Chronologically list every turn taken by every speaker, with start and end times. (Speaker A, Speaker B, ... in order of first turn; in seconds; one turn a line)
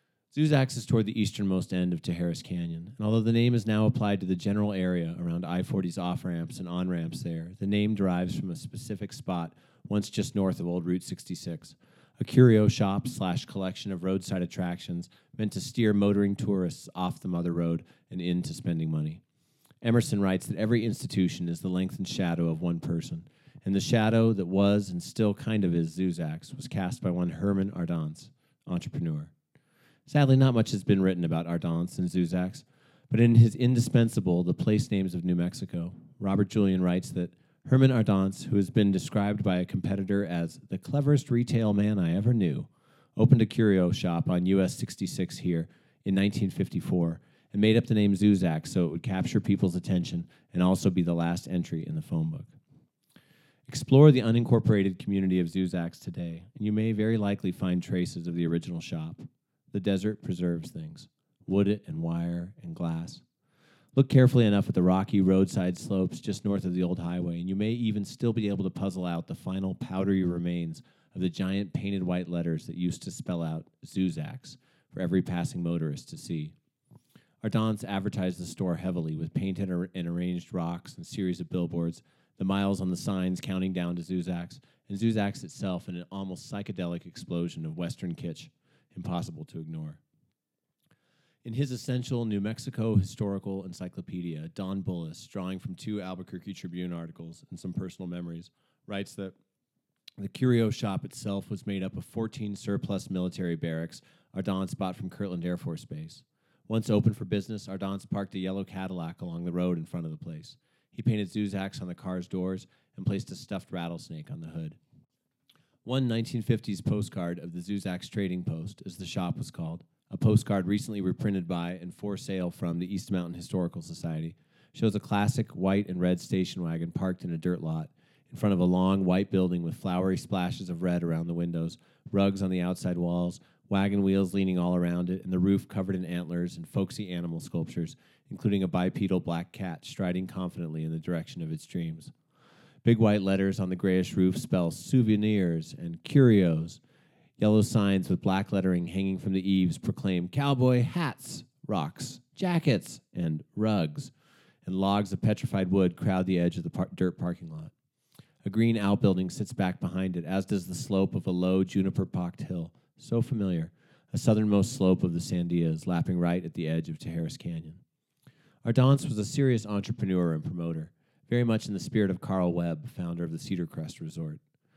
Speaker A: 0.3-19.2
Speaker A: 19.8-29.3
Speaker A: 30.1-52.5
Speaker A: 53.7-63.2
Speaker A: 63.9-76.5
Speaker A: 77.4-90.0
Speaker A: 91.4-99.4
Speaker A: 100.2-114.8
Speaker A: 115.8-142.1
Speaker A: 142.8-146.8
Speaker A: 147.4-154.1
Speaker A: 154.7-157.7
Speaker A: 158.4-167.8
Speaker A: 168.6-174.4